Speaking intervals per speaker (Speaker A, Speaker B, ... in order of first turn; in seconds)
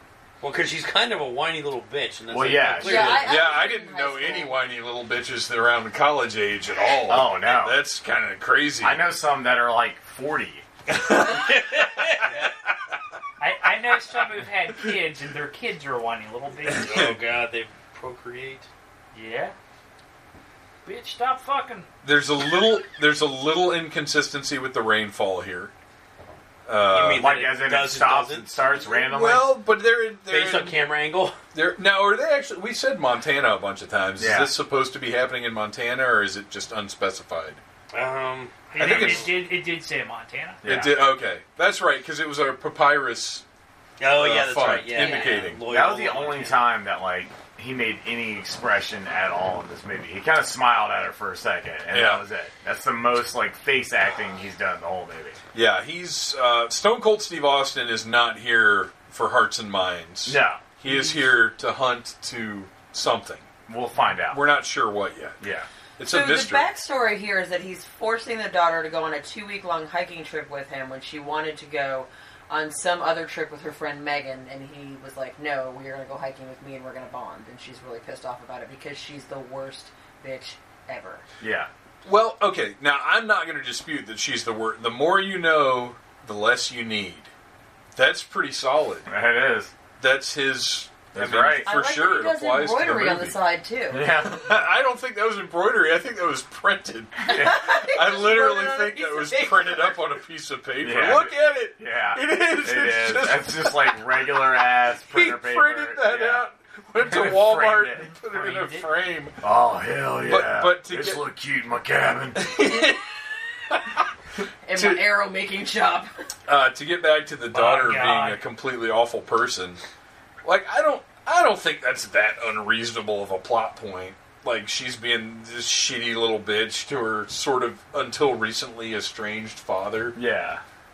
Speaker A: 0.4-3.3, 10.9-12.5, 16.7-18.7, 26.9-28.5, 30.3-31.4, 37.9-39.3, 44.0-46.7
Speaker B: 2.3-3.2, 7.1-7.8, 8.8-10.7, 27.1-29.6, 34.2-34.5, 40.6-41.0, 45.6-55.4, 60.3-60.7, 63.7-64.5, 65.4-65.7, 81.4-81.7, 89.1-89.7, 91.1-91.7, 93.9-94.5, 97.3-97.6, 100.8-106.4, 107.0-108.1, 109.4-112.6, 130.2-130.6
Speaker C: 2.8-4.6, 45.0-45.5, 66.1-81.2, 91.6-94.1, 97.2-100.0, 114.7-116.1
Speaker D: 3.2-9.0, 16.9-17.2, 22.0-25.7, 26.7-27.5, 28.7-30.8, 31.5-37.6, 38.8-39.3, 40.6-43.4, 44.1-45.6, 51.9-52.2, 55.5-63.5, 64.3-65.4, 66.0-66.7, 82.0-87.3, 88.0-89.1, 90.0-93.3, 94.2-104.0, 105.1-109.4, 110.3-111.2, 112.4-113.0, 113.7-114.0, 114.8-115.0, 116.5-119.8, 120.4-130.2
Speaker E: 13.4-17.0, 19.1-19.6, 20.9-21.9, 38.7-40.6, 108.2-108.9, 117.5-118.4